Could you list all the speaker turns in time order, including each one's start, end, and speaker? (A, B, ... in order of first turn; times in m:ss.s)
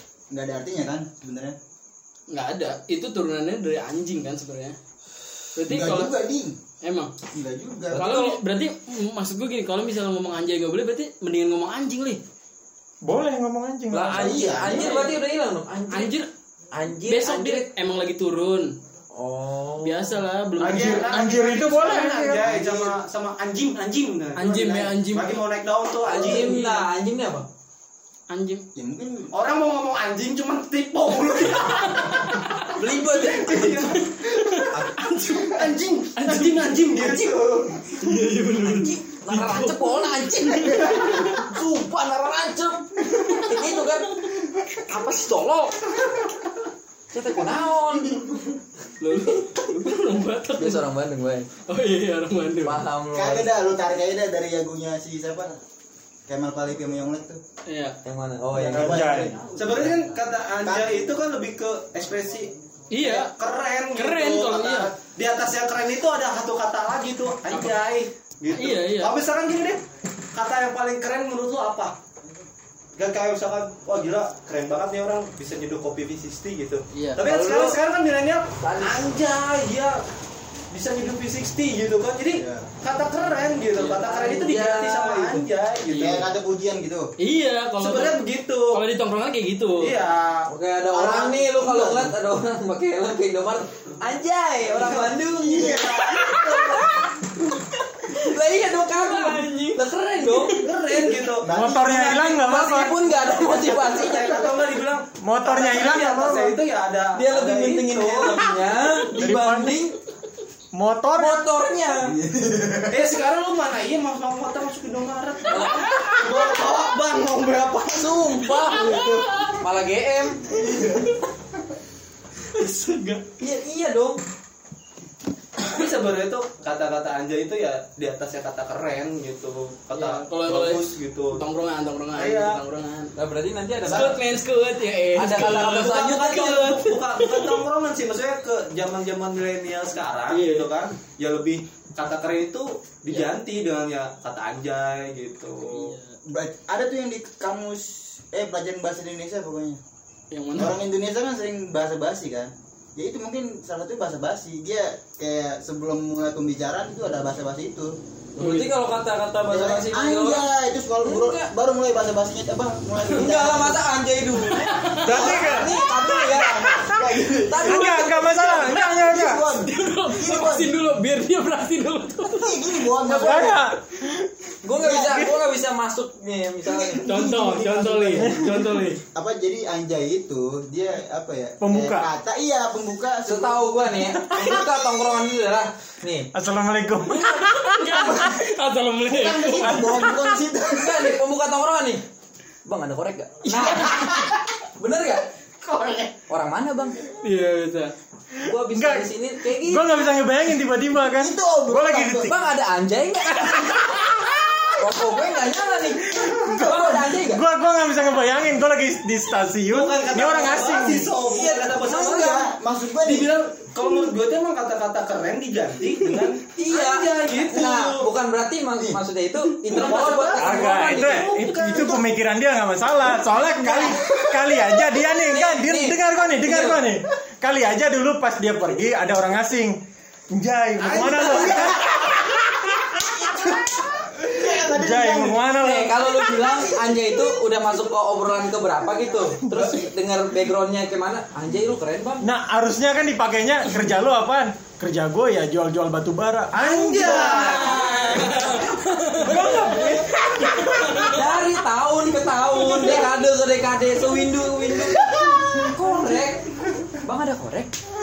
0:00.3-0:01.6 A
0:02.3-0:04.8 B
0:05.6-0:06.2 B
0:05.7-0:06.6 A
0:06.8-0:07.1 B
0:07.4-0:08.1 A
0:07.9-0:08.4 C
0:08.0-0:12.2 B
0:13.0-0:14.6 D
0:13.9-0:16.2 C
0:14.1-0:15.1 A
0:14.7-0:15.1 B
0:15.9-0:16.3 B
0:16.7-0:17.7 C
0:17.0-0:18.7 B
0:19.1-0:20.2 C
0:19.8-0:21.6 B
0:20.6-0:22.6 D
0:20.6-0:26.7 E
0:22.6-0:22.9 A
0:24.4-0:25.4 B
0:26.0-0:27.5 C
0:26.1-0:26.8 B
0:28.3-0:28.7 B
0:28.8-0:29.3 A
0:29.3-0:32.3 E
0:31.6-0:32.8 B
0:32.8-0:34.0 C
0:33.1-0:34.6 E
0:33.8-0:36.8 B
0:35.4-0:37.7 E
0:37.0-0:37.8 A
0:37.9-0:40.0 B
0:38.6-0:44.1 C
0:40.7-0:41.4 B
0:43.2-0:43.6 B
0:44.9-0:45.8 C
0:47.1-0:48.4 C
0:49.0-0:50.9 B
0:50.6-0:51.5 C
0:51.7-0:52.8 B
0:52.6-0:53.5 C
0:53.1-0:55.6 A
0:56.3-0:57.4 A
0:57.7-0:58.0 B
0:58.0-0:59.3 C
0:58.5-1:00.0 A
0:58.7-0:59.4 D
0:59.6-1:09.8 E
1:00.6-1:01.0 A
1:02.9-1:03.3 B
1:04.0-1:04.9 B
1:08.5-1:09.1 B
1:10.3-1:12.0 E
1:13.0-1:20.0 E
1:16.9-1:17.2 B
1:17.2-1:17.8 C
1:18.6-1:19.1 C
1:20.7-1:26.3 E
1:22.3-1:22.7 A
1:23.8-1:24.3 B
1:24.0-1:25.4 C
1:25.9-1:27.1 A
1:27.2-1:29.9 B
1:27.8-1:28.8 E
1:29.8-1:30.5 E
1:30.5-1:40.6 C
1:30.9-1:32.1 A
1:34.7-1:35.7 E
1:35.2-1:37.0 A
1:38.9-1:41.2 B
1:40.5-1:41.5 E
1:41.4-1:42.5 A
1:41.5-1:43.0 D
1:42.2-1:44.4 C
1:43.0-1:44.5 A
1:43.2-1:48.5 E
1:45.2-1:46.6 D
1:47.1-1:50.0 C
1:49.2-1:49.9 D
1:50.7-1:51.4 D
1:51.1-1:52.1 C
1:52.0-1:53.0 A
1:52.9-1:59.2 E
1:55.5-1:56.6 C
1:57.9-2:00.6 C
1:58.8-1:59.6 B
2:00.5-2:01.2 A
2:02.5-2:03.3 B
2:03.4-2:04.2 C
2:05.6-2:11.4 E
2:09.9-2:13.1 B
2:12.2-2:12.6 E
2:13.2-2:14.2 C
2:13.9-2:17.5 B
2:15.2-2:16.6 C
2:15.4-2:26.0 E
2:20.3-2:20.7 B
2:25.7-2:26.2 B
2:26.3-2:29.8 A
2:30.3-2:30.8 B
2:30.6-2:37.9 A
2:38.4-2:40.5 C
2:38.4-2:38.8 B
2:39.5-2:43.8 A
2:41.0-2:41.5 C
2:43.1-2:48.8 C
2:44.5-2:45.2 B
2:45.0-2:45.8 D
2:45.1-2:50.8 A
2:47.6-2:49.5 D
2:49.5-2:52.9 B
2:52.3-2:53.7 A
2:53.1-2:54.3 D
2:54.6-2:57.0 C
2:54.8-2:55.3 A
2:55.0-2:55.4 D
2:56.6-2:58.3 A
2:57.0-2:59.0 B
2:58.2-2:58.9 D
2:59.1-3:04.8 A
3:01.6-3:02.1 D
3:03.3-3:06.3 C
3:04.2-3:04.6 D
3:06.3-3:08.4 D
3:07.1-3:07.5 C
3:07.1-3:10.1 B
3:09.1-3:11.2 A
3:09.6-3:10.4 D
3:10.7-3:12.0 C
3:12.6-3:15.3 C
3:13.4-3:14.0 B
3:13.8-3:14.4 A
3:15.6-3:16.1 A
3:16.3-3:17.0 C
3:17.2-3:17.9 B
3:18.4-3:20.1 C
3:18.7-3:22.4 D
3:21.2-3:22.4 A
3:22.3-3:27.4 C
3:23.9-3:24.8 D
3:26.1-3:31.1 D
3:29.7-3:32.4 E
3:31.1-3:32.5 C
3:32.0-3:33.3 A
3:33.0-3:38.0 E
3:36.6-3:41.3 C
3:39.6-3:42.0 E
3:39.8-3:40.2 B
3:40.4-3:49.8 D
3:43.4-3:44.2 A
3:45.3-3:46.8 C
3:50.3-3:53.6 D
3:50.8-3:51.9 E
3:51.0-3:51.8 A
3:54.0-3:55.4 A
3:54.6-3:56.1 D
3:55.6-4:02.3 C
3:59.4-3:59.7 D
3:59.5-3:59.9 A
4:02.2-4:07.8 D
4:06.6-4:08.1 E
4:07.0-4:08.6 C
4:07.6-4:11.4 B
4:09.1-4:10.1 C
4:09.4-4:09.9 D
4:11.0-4:17.7 C
4:12.5-4:13.0 B
4:15.0-4:15.6 A